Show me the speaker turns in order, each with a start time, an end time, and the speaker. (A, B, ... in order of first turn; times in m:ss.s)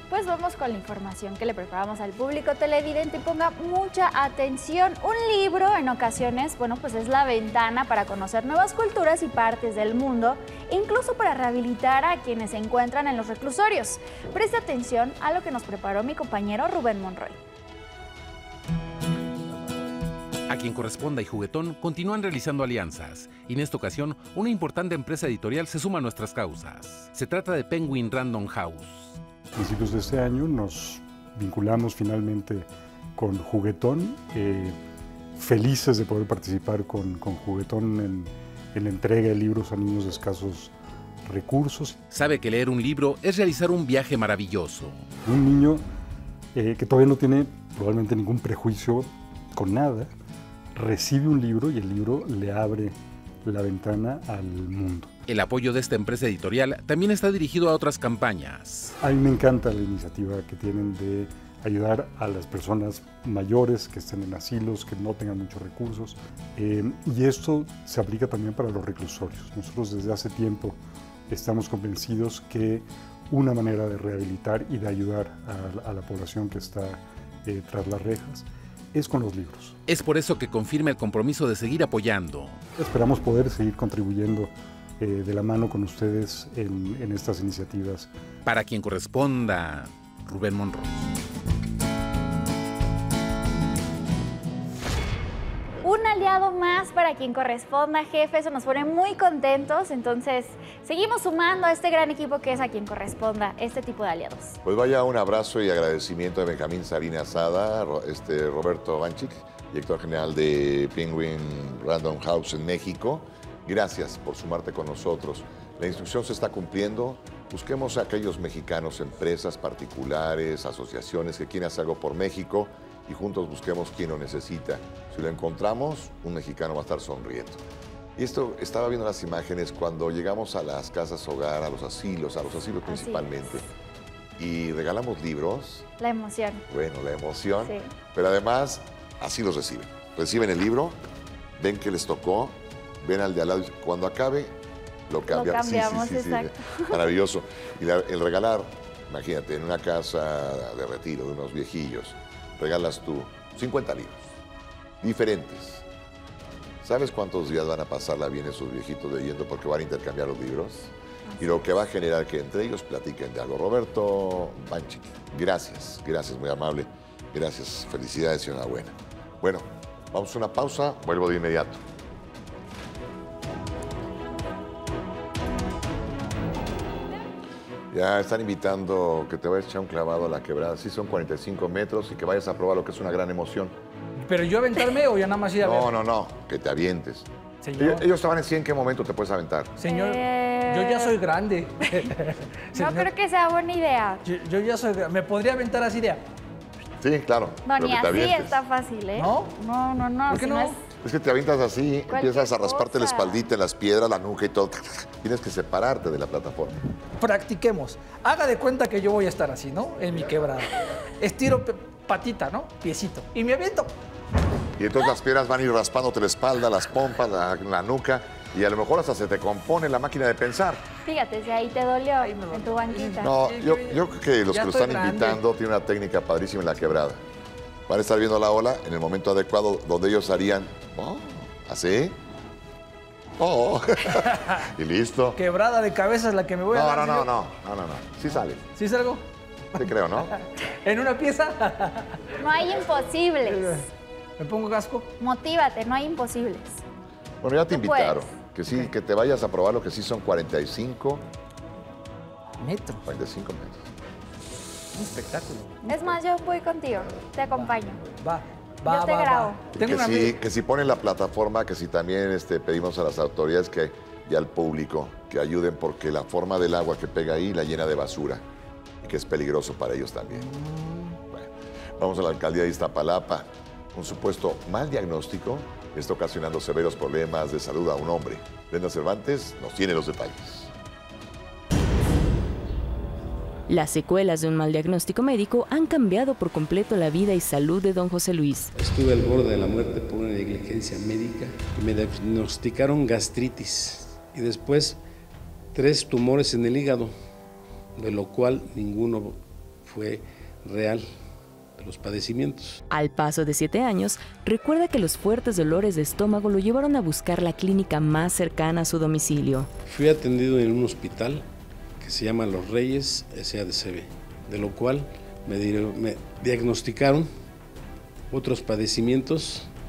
0:00.1-0:17.4 A
0:20.5-0:29.2 B
0:29.6-0:34.8 C
0:35.4-0:40.7 C
0:41.2-0:42.0 C
0:42.1-0:45.0 B
0:45.2-0:45.8 C
0:46.6-0:50.1 C
0:50.8-0:55.1 C
0:55.3-0:59.0 B
0:59.0-1:10.8 C
1:11.3-1:19.8 C
1:19.9-1:22.6 B
1:22.8-1:28.1 C
1:28.4-1:31.0 B
1:35.8-1:44.6 A
1:44.6-2:07.6 D
2:08.2-2:13.6 D
2:12.8-2:13.4 A
2:14.4-2:15.9 D
2:16.0-2:16.6 A
2:16.7-2:21.0 D
2:17.6-2:17.9 A
2:21.6-2:24.6 D
2:25.1-2:34.4 D
2:25.3-2:26.9 A
2:35.0-2:35.8 D
2:36.8-2:51.8 D
2:57.9-3:03.8 D
3:04.3-3:05.9 E
3:05.6-3:09.8 D
3:07.6-3:08.0 E
3:09.8-3:13.1 E
3:09.8-3:11.2 A
3:12.7-3:14.2 A
3:14.2-3:16.2 E
3:17.0-3:18.6 D
3:17.7-3:20.8 A
3:19.2-3:19.5 E
3:20.3-3:20.8 E
3:21.0-3:26.8 D
3:22.1-3:23.4 A
3:27.2-3:33.9 E
3:34.8-3:40.8 D
3:41.1-3:43.3 A
3:42.2-3:45.4 E
3:43.2-3:47.2 D
3:47.9-3:52.2 D
3:53.4-3:55.4 D
3:54.1-3:54.6 E
3:55.4-3:57.3 E
3:56.7-3:58.6 D
3:58.8-3:59.2 E
3:59.8-4:00.3 D
3:59.8-4:02.4 E
4:02.4-4:03.9 A
4:03.5-4:03.9 E
4:04.4-4:05.1 E
4:05.2-4:06.8 A
4:07.4-4:11.2 D
4:07.7-4:08.3 A
4:12.6-4:13.1 E
4:13.0-4:13.8 D
4:14.9-4:16.2 E
4:15.8-4:18.0 A
4:17.5-4:20.4 E
4:18.8-4:19.7 A
4:19.8-4:28.4 D
4:29.0-4:30.5 D
4:30.4-4:31.2 E
4:31.3-4:40.7 D
4:43.7-4:48.7 F
4:48.8-4:55.0 G
4:55.7-4:57.1 G
4:58.0-5:01.1 G
5:01.8-5:02.8 G
5:02.9-5:09.7 F
5:09.9-5:11.5 G
5:12.0-5:17.3 G
5:18.3-5:19.7 G